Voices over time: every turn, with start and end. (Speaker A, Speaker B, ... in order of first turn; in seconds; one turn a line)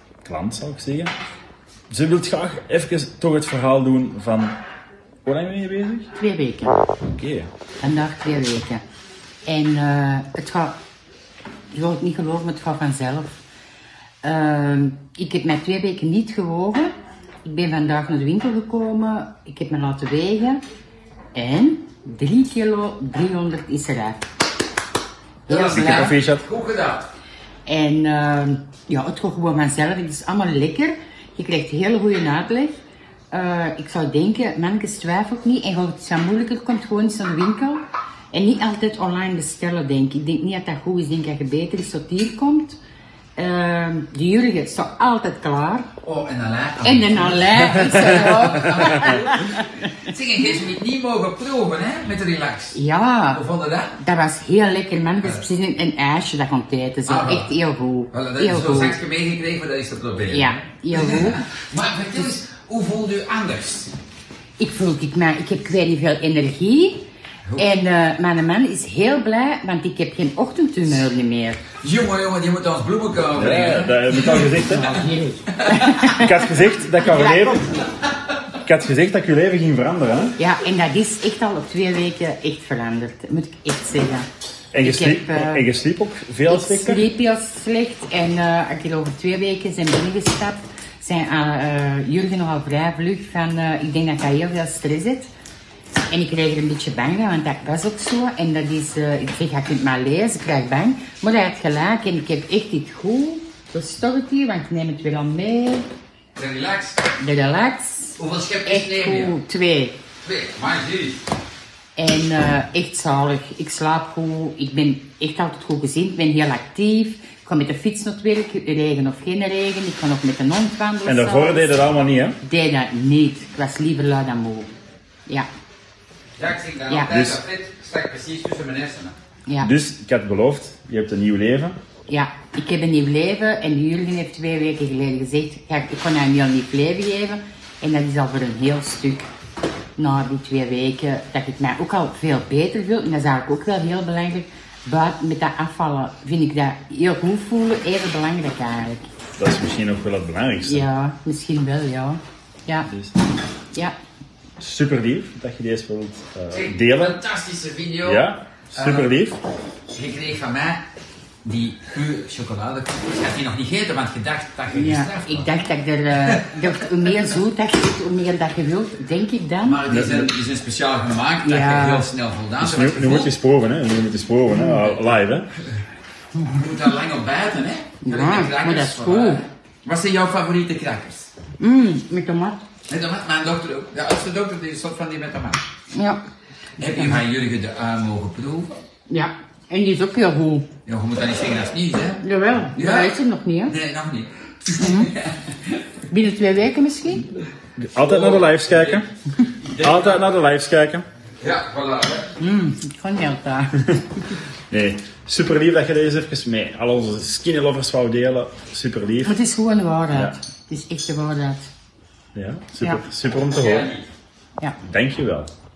Speaker A: 0.2-1.1
Speaker A: 1.9-4.6
Speaker A: 5.2-6.1
Speaker B: 6.2-6.8
Speaker A: 7.0-7.5
Speaker B: 7.8-8.8
Speaker B: 9.5-10.8
Speaker B: 11.7-13.4
Speaker B: 14.2-16.9
Speaker B: 17.4-20.6
Speaker B: 21.4-24.2
Speaker B: 25.5-26.2
Speaker C: 25.5-27.1
Speaker A: 25.7-26.5
Speaker B: 27.7-32.7
Speaker B: 33.3-42.8
Speaker B: 43.4-45.9
Speaker C: 46.0-52.8
Speaker B: 46.8-49.9
Speaker B: 52.7-53.4
Speaker C: 53.3-54.0
Speaker B: 54.0-59.0
Speaker C: 57.1-57.5
Speaker C: 58.1-63.9
Speaker B: 60.3-61.5
Speaker B: 64.6-67.0
Speaker B: 67.6-71.6
Speaker C: 71.8-76.0
Speaker A: 73.3-75.0
Speaker B: 74.6-77.8
Speaker A: 76.0-77.8
Speaker A: 78.7-80.4
Speaker B: 80.4-84.3
Speaker A: 84.7-87.1
Speaker B: 84.8-85.7
Speaker B: 86.5-95.3
Speaker B: 96.1-105.9
Speaker C: 106.4-107.0
Speaker B: 107.2-110.0
Speaker C: 108.2-109.4
Speaker C: 110.2-111.2
Speaker B: 112.0-121.8
Speaker A: 121.0-122.4
Speaker B: 122.4-124.7
Speaker C: 126.4-129.2
Speaker B: 126.9-127.2
Speaker A: 127.1-127.4
Speaker B: 129.5-129.7
Speaker A: 129.6-131.8
Speaker B: 132.1-139.3
Speaker B: 140.0-149.1
Speaker A: 149.4-150.9
Speaker B: 150.6-152.9
Speaker A: 152.9-153.2
Speaker A: 154.6-157.2
Speaker C: 156.5-159.1
Speaker A: 158.0-159.4
Speaker C: 159.9-160.8
Speaker C: 161.4-165.6
Speaker B: 164.7-169.8
Speaker C: 166.2-166.6
Speaker C: 169.6-173.3
Speaker A: 169.9-170.3
Speaker B: 171.4-172.1
Speaker A: 172.6-175.5
Speaker B: 174.5-174.9
Speaker C: 174.8-175.1
Speaker C: 176.4-181.3
Speaker B: 178.0-179.4
Speaker B: 181.6-182.6
Speaker C: 182.9-185.6
Speaker B: 185.9-186.2
Speaker C: 186.8-188.7
Speaker B: 189.1-190.7
Speaker C: 190.9-192.2
Speaker B: 192.2-193.8
Speaker C: 192.8-193.2
Speaker C: 193.7-195.8
Speaker B: 194.7-195.1
Speaker B: 196.1-197.3
Speaker A: 197.8-199.1
Speaker C: 198.0-199.1
Speaker C: 199.6-200.3
Speaker A: 199.8-201.1
Speaker C: 201.4-202.3
Speaker B: 202.4-203.8
Speaker A: 204.7-209.4
Speaker B: 209.2-211.7
Speaker A: 212.3-213.9
Speaker C: 213.5-214.1
Speaker A: 214.9-215.5